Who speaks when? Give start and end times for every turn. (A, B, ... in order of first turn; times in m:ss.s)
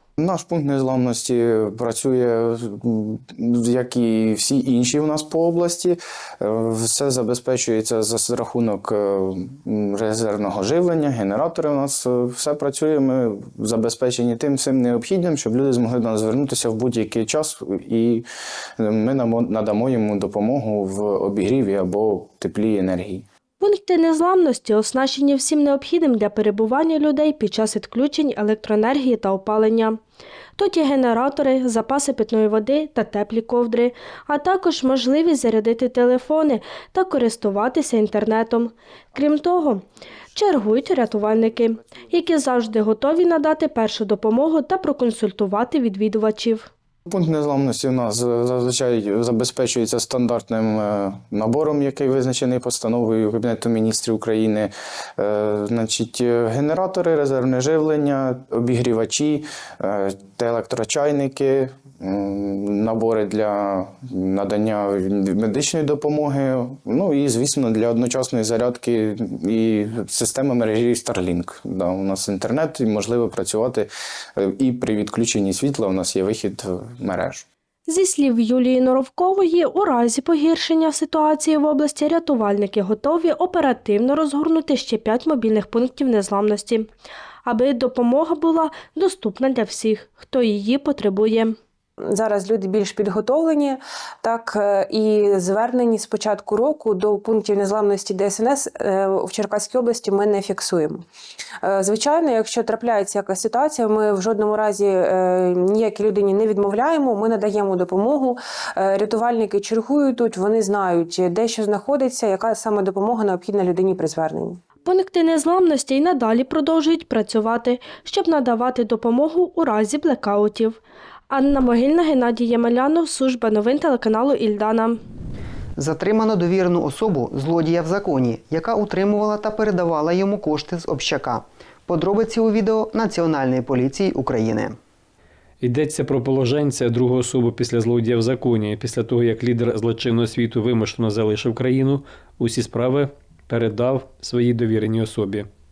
0:00.2-0:18.3 A
0:18.8-0:23.2 A
0:23.6-0:30.0 B
0:30.6-0:46.7 B
0:47.1-1:17.5 A
1:17.9-1:26.9 B
1:27.4-1:31.6 B
1:32.0-1:41.1 C
1:41.6-1:54.6 C
1:54.8-2:00.8 B
2:01.3-2:05.0 B
2:05.8-2:14.8 D
2:15.6-2:25.5 E